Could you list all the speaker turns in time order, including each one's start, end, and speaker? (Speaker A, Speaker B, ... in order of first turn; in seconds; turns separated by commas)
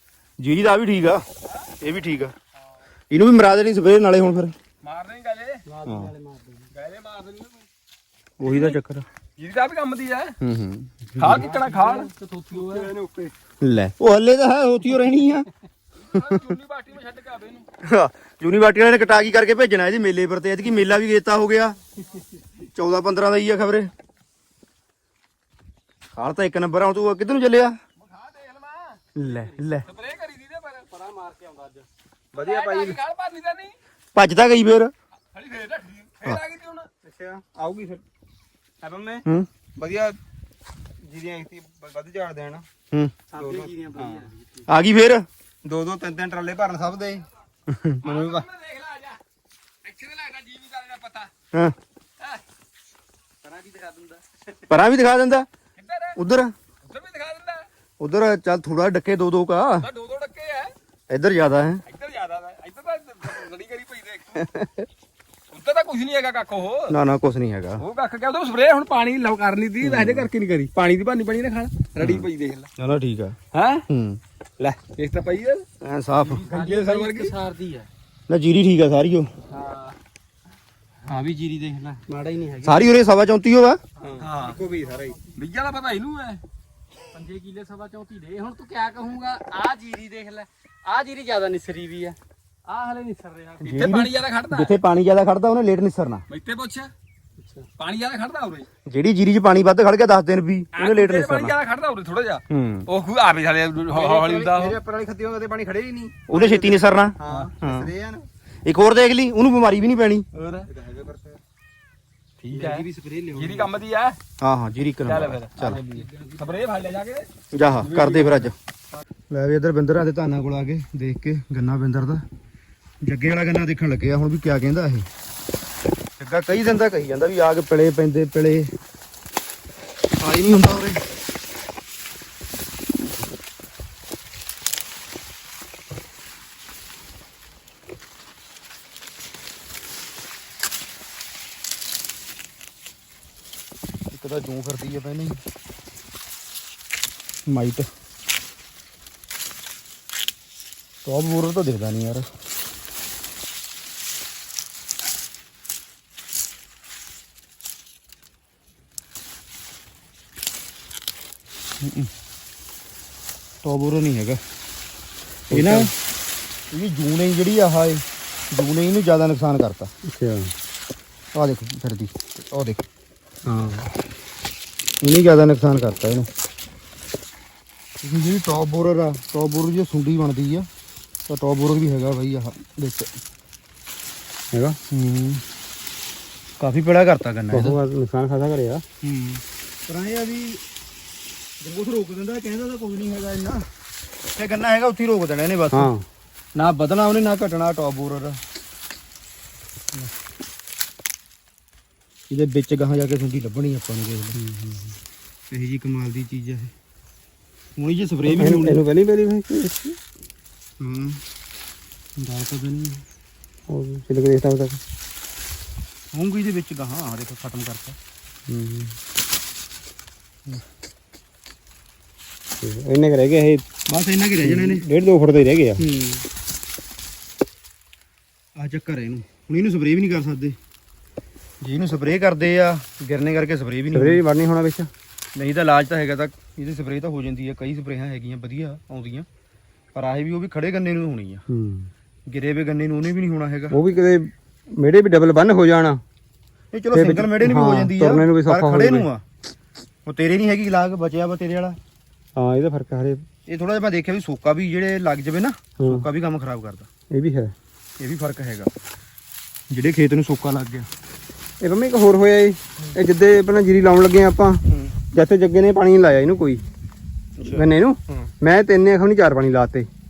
Speaker A: 0.4-1.2, Speaker B: 1.5-1.7, Speaker A: 1.8-2.3, Speaker A: 3.1-4.5, Speaker B: 4.8-5.6, Speaker C: 5.7-6.7, Speaker A: 5.8-6.1, Speaker B: 6.7-7.7, Speaker A: 8.4-9.0, Speaker B: 8.5-8.7, Speaker B: 9.4-10.4, Speaker A: 10.4-11.4, Speaker B: 11.2-12.1, Speaker C: 11.2-12.9, Speaker D: 12.5-13.3, Speaker A: 13.6-15.4, Speaker B: 16.0-17.7, Speaker A: 16.1-16.4, Speaker A: 17.8-21.8, Speaker A: 22.7-23.9, Speaker A: 26.1-27.8, Speaker B: 28.0-29.0, Speaker A: 29.1-29.9, Speaker C: 29.2-30.1, Speaker B: 29.8-30.9, Speaker C: 30.9-31.9, Speaker D: 32.3-33.0, Speaker B: 32.3-33.8, Speaker A: 34.1-34.9, Speaker B: 35.3-36.9, Speaker D: 37.0-38.0, Speaker D: 38.8-40.2, Speaker D: 41.0-42.6, Speaker C: 43.3-44.7, Speaker D: 43.3-44.3, Speaker A: 44.7-45.2, Speaker D: 45.6-47.3, Speaker A: 47.7-48.0, Speaker B: 48.0-49.2, Speaker D: 48.0-48.5, Speaker B: 49.8-51.3, Speaker C: 53.4-54.6, Speaker A: 54.7-55.5, Speaker B: 55.8-56.2, Speaker A: 56.1-56.5, Speaker B: 56.8-57.7, Speaker A: 58.0-59.9, Speaker B: 59.8-60.7, Speaker A: 61.1-61.8, Speaker B: 61.9-64.5, Speaker A: 64.3-64.9, Speaker B: 65.5-67.0, Speaker A: 66.9-67.8, Speaker B: 67.8-72.7, Speaker A: 69.8-70.3, Speaker A: 72.0-72.2, Speaker A: 72.8-73.4, Speaker B: 73.5-73.8, Speaker A: 73.9-74.2, Speaker B: 74.7-75.6, Speaker A: 75.8-76.5, Speaker B: 76.3-77.3, Speaker C: 76.4-77.9, Speaker A: 78.3-79.3, Speaker C: 79.5-79.9, Speaker C: 81.0-82.9, Speaker A: 82.6-83.8, Speaker D: 84.0-85.2, Speaker C: 84.0-85.4, Speaker B: 85.3-86.4, Speaker C: 87.1-94.0, Speaker A: 93.6-96.2, Speaker B: 93.6-94.8, Speaker B: 96.3-96.9, Speaker C: 97.4-97.7, Speaker B: 97.8-98.7, Speaker A: 98.9-101.5, Speaker B: 100.7-104.8, Speaker A: 102.5-102.8, Speaker D: 103.9-108.3, Speaker A: 106.3-107.9, Speaker B: 107.2-107.5, Speaker A: 108.6-110.3, Speaker B: 110.3-110.7, Speaker D: 110.6-111.4, Speaker B: 112.4-114.2, Speaker D: 112.5-113.6, Speaker C: 112.5-113.7, Speaker A: 114.4-115.8, Speaker B: 115.1-117.3, Speaker C: 115.9-116.8, Speaker A: 117.5-118.5, Speaker B: 117.8-118.5, Speaker A: 119.3-122.2, Speaker A: 123.0-125.0, Speaker A: 126.2-128.7, Speaker A: 130.2-131.0, Speaker A: 144.1-145.4, Speaker A: 147.5-147.9, Speaker A: 151.0-152.3, Speaker A: 161.8-162.1, Speaker A: 163.6-164.4, Speaker A: 165.5-165.9, Speaker D: 165.5-165.9, Speaker A: 166.7-169.9, Speaker D: 170.1-170.5, Speaker A: 171.3-172.8, Speaker D: 173.4-173.8, Speaker A: 175.0-176.3, Speaker A: 178.0-180.7, Speaker A: 181.3-183.1, Speaker D: 184.5-184.8, Speaker A: 184.9-185.4, Speaker A: 186.6-187.8, Speaker D: 187.5-188.8, Speaker A: 189.0-190.6, Speaker A: 191.6-193.7, Speaker A: 194.3-195.9, Speaker D: 195.7-196.1, Speaker A: 196.5-198.4, Speaker A: 202.3-204.4, Speaker D: 204.4-204.9, Speaker A: 205.5-206.7, Speaker A: 207.8-208.8, Speaker D: 208.3-210.0, Speaker A: 210.8-211.2, Speaker A: 212.2-213.0, Speaker D: 213.7-214.8, Speaker A: 216.1-218.0, Speaker D: 218.5-218.9, Speaker D: 222.6-223.7, Speaker A: 223.9-224.8, Speaker D: 224.4-225.8, Speaker A: 225.8-226.2, Speaker A: 228.6-230.6, Speaker A: 231.6-234.2, Speaker D: 233.9-234.9, Speaker A: 235.3-239.3, Speaker A: 239.9-241.4, Speaker D: 241.5-241.9, Speaker A: 242.3-243.8, Speaker D: 243.7-246.0, Speaker A: 246.7-249.2, Speaker D: 246.9-249.1, Speaker A: 250.1-251.8, Speaker D: 252.3-253.2, Speaker A: 253.5-256.9, Speaker D: 255.8-256.1, Speaker D: 257.1-257.5, Speaker A: 258.0-258.7, Speaker A: 259.7-260.9, Speaker D: 261.6-264.6, Speaker A: 264.6-264.9, Speaker D: 265.1-266.6, Speaker A: 267.4-268.3, Speaker D: 267.5-269.9